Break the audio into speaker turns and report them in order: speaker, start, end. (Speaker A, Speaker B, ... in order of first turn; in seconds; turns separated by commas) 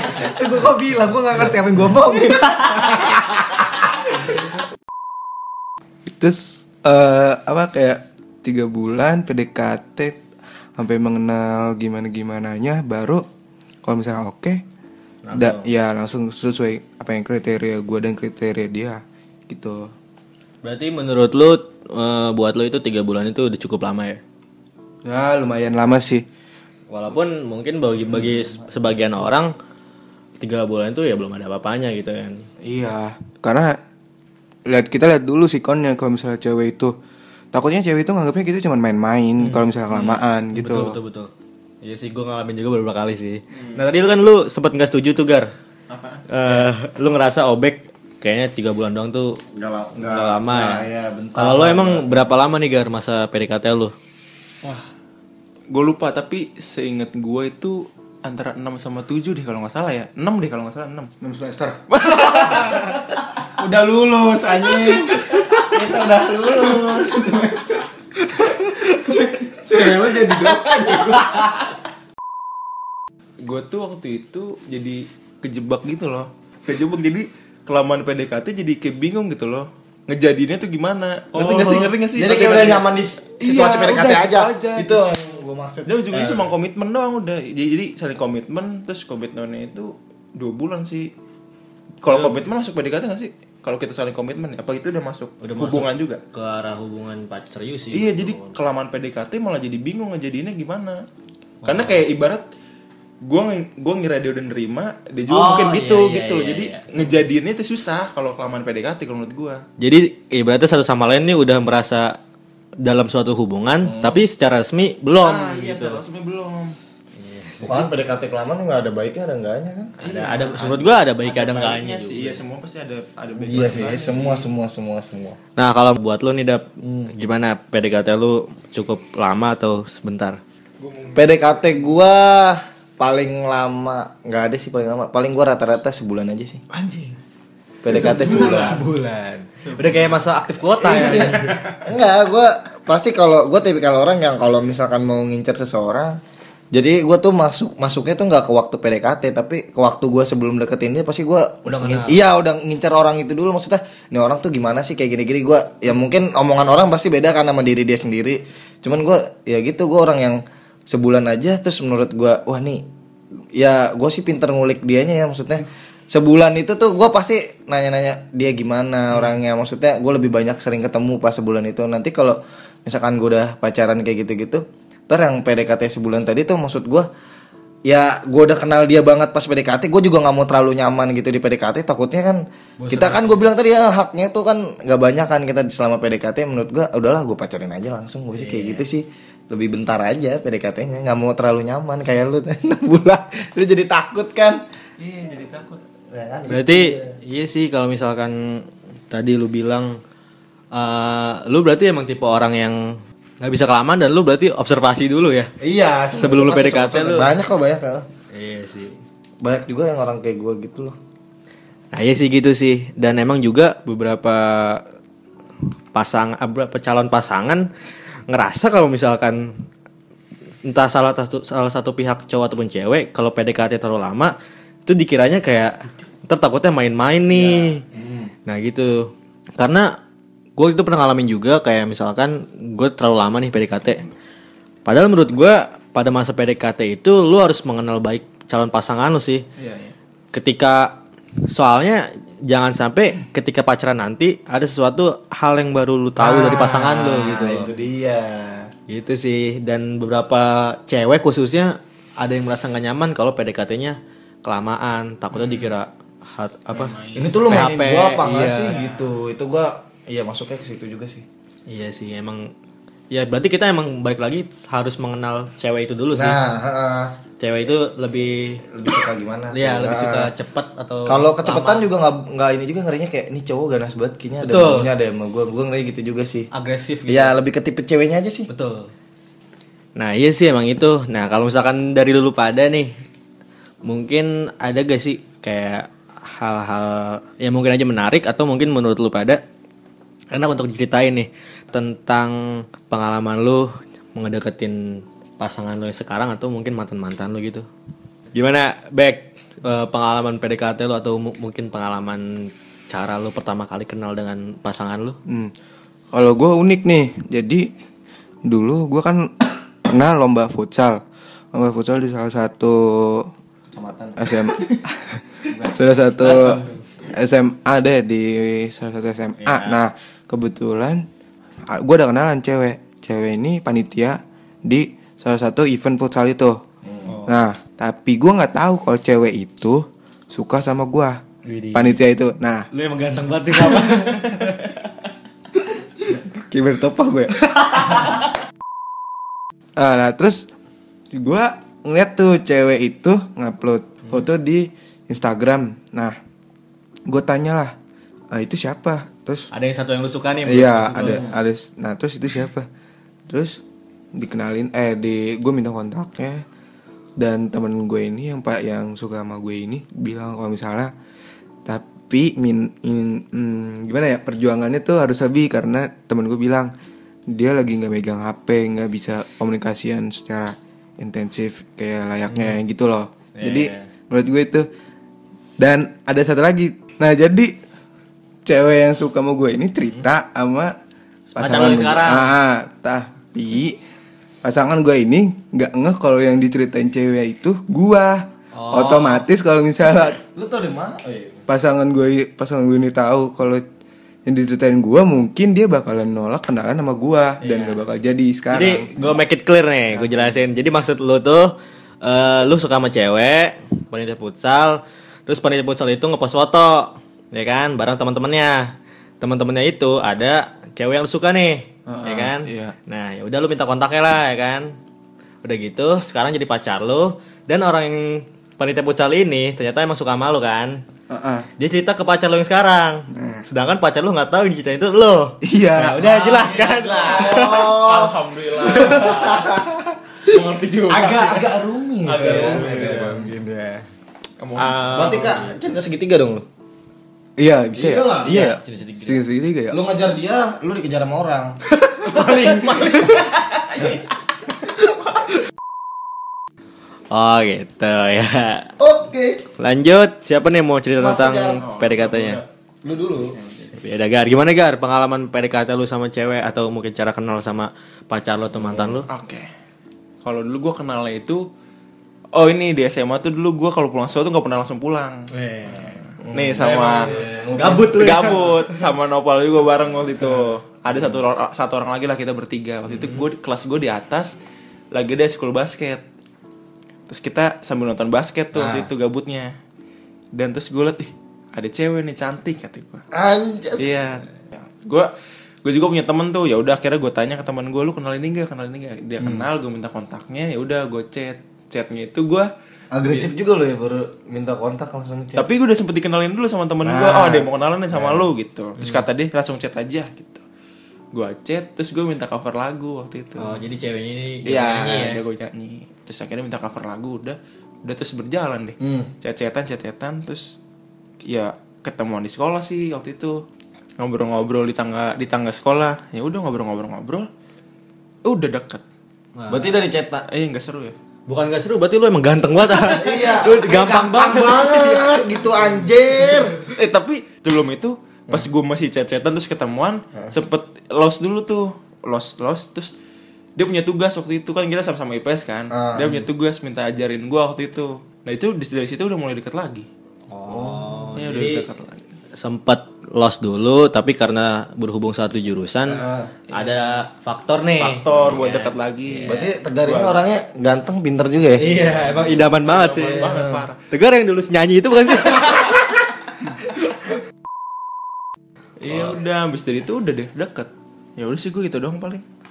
Speaker A: 0.1-2.8, Speaker B: 2.6-3.0, Speaker C: 2.8-3.2, Speaker A: 6.0-10.2, Speaker A: 10.8-13.2, Speaker A: 13.8-14.6, Speaker B: 15.2-15.7, Speaker A: 15.3-19.9, Speaker B: 20.6-24.2, Speaker A: 25.0-26.2, Speaker B: 26.9-29.5, Speaker B: 30.4-32.4, Speaker A: 32.6-33.8, Speaker A: 34.7-36.9, Speaker A: 37.5-41.0, Speaker B: 39.4-41.3, Speaker B: 41.8-45.5, Speaker D: 43.5-43.8, Speaker D: 45.9-46.7, Speaker B: 46.3-49.4, Speaker C: 49.5-52.2, Speaker B: 50.0-50.8, Speaker B: 51.3-53.9, Speaker D: 55.7-61.1, Speaker A: 61.2-61.8, Speaker D: 61.9-63.0, Speaker C: 62.1-62.9, Speaker C: 63.6-67.8, Speaker D: 64.7-65.0, Speaker D: 65.7-66.0, Speaker D: 66.6-67.3, Speaker C: 68.5-71.5, Speaker A: 69.8-70.7, Speaker D: 70.3-71.5, Speaker D: 73.4-82.9, Speaker B: 81.3-81.9, Speaker C: 82.2-86.0, Speaker D: 83.4-85.0, Speaker D: 85.8-91.1, Speaker B: 86.1-86.5, Speaker D: 92.0-96.2, Speaker B: 92.0-92.4, Speaker B: 95.4-98.5, Speaker D: 97.9-101.0, Speaker B: 101.6-102.0, Speaker D: 101.6-102.4, Speaker D: 103.2-109.6, Speaker B: 105.3-106.9, Speaker B: 109.8-112.2, Speaker B: 112.8-116.0, Speaker C: 113.8-114.2, Speaker D: 115.2-116.8, Speaker B: 117.1-117.9, Speaker C: 117.6-119.9, Speaker D: 120.0-124.5, Speaker B: 120.0-122.4, Speaker C: 123.4-125.4, Speaker B: 125.6-130.4, Speaker C: 126.8-127.1, Speaker D: 130.8-131.6, Speaker C: 131.1-136.6, Speaker B: 136.7-137.1, Speaker C: 137.8-138.8, Speaker D: 137.9-138.8, Speaker B: 137.9-141.6, Speaker D: 139.6-140.2, Speaker C: 140.8-146.2, Speaker D: 140.9-141.8, Speaker C: 146.7-162.8, Speaker B: 151.7-152.2, Speaker C: 163.6-177.1, Speaker C: 177.8-194.6, Speaker B: 182.8-183.5, Speaker B: 188.3-188.8, Speaker D: 195.0-195.8, Speaker C: 196.1-197.2, Speaker B: 196.5-199.9, Speaker B: 200.7-205.5, Speaker C: 205.6-208.1, Speaker B: 206.1-207.3, Speaker B: 208.3-209.0, Speaker C: 209.4-210.9, Speaker B: 211.9-214.8, Speaker B: 215.9-217.7, Speaker B: 218.3-219.6, Speaker B: 220.6-224.3, Speaker B: 224.9-227.8, Speaker C: 227.3-228.3, Speaker B: 228.4-229.9, Speaker B: 230.6-234.0, Speaker B: 234.8-239.4, Speaker D: 239.6-239.9, Speaker B: 240.3-247.7, Speaker C: 246.2-248.7, Speaker B: 248.9-256.9, Speaker D: 255.3-255.7, Speaker D: 256.7-257.4, Speaker C: 257.1-261.2, Speaker B: 257.5-258.8, Speaker B: 261.7-262.5, Speaker B: 263.1-266.4, Speaker C: 266.1-267.1, Speaker B: 267.4-268.7, Speaker C: 268.7-270.3, Speaker B: 269.5-271.9, Speaker C: 271.1-276.5, Speaker B: 274.4-274.9, Speaker B: 276.5-277.3, Speaker C: 277.1-278.5, Speaker B: 278.5-278.9, Speaker B: 280.0-282.9, Speaker B: 283.8-289.4, Speaker B: 290.3-292.4, Speaker B: 292.9-294.8, Speaker B: 295.4-297.6, Speaker B: 298.3-305.2, Speaker A: 305.3-305.5, Speaker A: 306.1-307.7, Speaker A: 308.4-311.0, Speaker A: 311.5-313.3, Speaker C: 313.7-314.7, Speaker A: 314.2-321.1, Speaker C: 315.4-316.6, Speaker B: 319.4-319.8, Speaker A: 321.7-326.6, Speaker C: 326.9-327.1, Speaker B: 327.1-327.4, Speaker A: 327.2-331.2, Speaker B: 331.4-332.0, Speaker A: 331.7-332.7, Speaker B: 332.7-334.8, Speaker A: 336.4-337.3, Speaker B: 337.6-338.1, Speaker A: 339.8-340.5, Speaker A: 341.1-346.1, Speaker A: 347.1-347.7, Speaker A: 348.3-349.5, Speaker B: 349.5-351.3, Speaker A: 350.4-352.7, Speaker C: 351.0-351.3, Speaker A: 353.3-353.6, Speaker A: 354.1-356.4, Speaker A: 357.2-360.9, Speaker A: 361.6-366.7, Speaker A: 367.3-374.7, Speaker B: 373.4-373.9, Speaker A: 375.6-377.5, Speaker A: 378.4-380.7, Speaker B: 381.3-382.3, Speaker A: 381.4-383.8, Speaker A: 384.4-390.2, Speaker B: 388.5-389.2, Speaker C: 390.3-391.4, Speaker A: 391.5-393.6, Speaker A: 394.2-399.0, Speaker B: 397.4-397.8, Speaker B: 398.5-401.5, Speaker A: 399.9-400.4, Speaker B: 402.0-414.7, Speaker A: 411.9-412.7, Speaker B: 415.4-420.8, Speaker A: 421.1-421.5, Speaker B: 421.6-427.7, Speaker A: 423.1-423.4, Speaker A: 425.4-426.0, Speaker C: 426.3-429.7, Speaker D: 426.4-429.6, Speaker D: 430.2-433.1, Speaker C: 430.9-433.3, Speaker B: 432.2-433.8, Speaker A: 432.9-433.4, Speaker D: 434.4-435.2, Speaker B: 434.6-435.6, Speaker C: 434.9-436.4, Speaker A: 437.4-439.8, Speaker C: 437.8-438.5, Speaker B: 438.2-439.2, Speaker C: 439.7-443.2, Speaker D: 442.0-444.0, Speaker B: 447.1-448.7, Speaker C: 448.8-449.4, Speaker B: 449.6-452.4, Speaker C: 451.0-451.6, Speaker D: 451.6-452.4, Speaker C: 452.8-453.4, Speaker D: 453.3-453.7, Speaker B: 453.8-459.1, Speaker D: 458.7-459.5, Speaker D: 460.2-461.4, Speaker D: 462.3-467.1, Speaker B: 465.3-466.0, Speaker C: 466.2-468.3, Speaker B: 467.0-468.6, Speaker D: 467.9-474.3, Speaker B: 472.9-473.2, Speaker D: 474.9-476.0, Speaker D: 477.1-479.5, Speaker C: 478.5-478.9, Speaker D: 480.3-483.0, Speaker C: 483.1-483.9, Speaker D: 483.8-485.1, Speaker D: 485.6-492.5, Speaker C: 489.2-489.5, Speaker C: 492.9-495.4, Speaker D: 495.4-500.4, Speaker C: 496.8-498.3, Speaker D: 501.1-503.6, Speaker B: 503.4-505.2, Speaker D: 504.5-510.5, Speaker C: 508.8-509.1, Speaker D: 511.3-513.4, Speaker D: 514.0-517.3, Speaker D: 518.2-518.8, Speaker B: 519.4-519.7, Speaker C: 519.5-520.2, Speaker D: 520.3-520.9, Speaker B: 521.3-525.2, Speaker C: 522.7-526.6, Speaker D: 526.7-532.9, Speaker D: 533.5-539.9, Speaker C: 535.7-536.3, Speaker B: 540.3-541.6, Speaker C: 540.5-540.9, Speaker D: 541.1-542.1, Speaker B: 542.4-549.5, Speaker C: 545.9-546.3, Speaker D: 546.5-547.0, Speaker D: 547.8-550.1, Speaker C: 549.2-551.7, Speaker B: 551.6-553.3, Speaker D: 551.8-553.8, Speaker C: 553.1-553.6, Speaker B: 553.9-555.8, Speaker D: 558.8-562.2, Speaker B: 558.9-559.2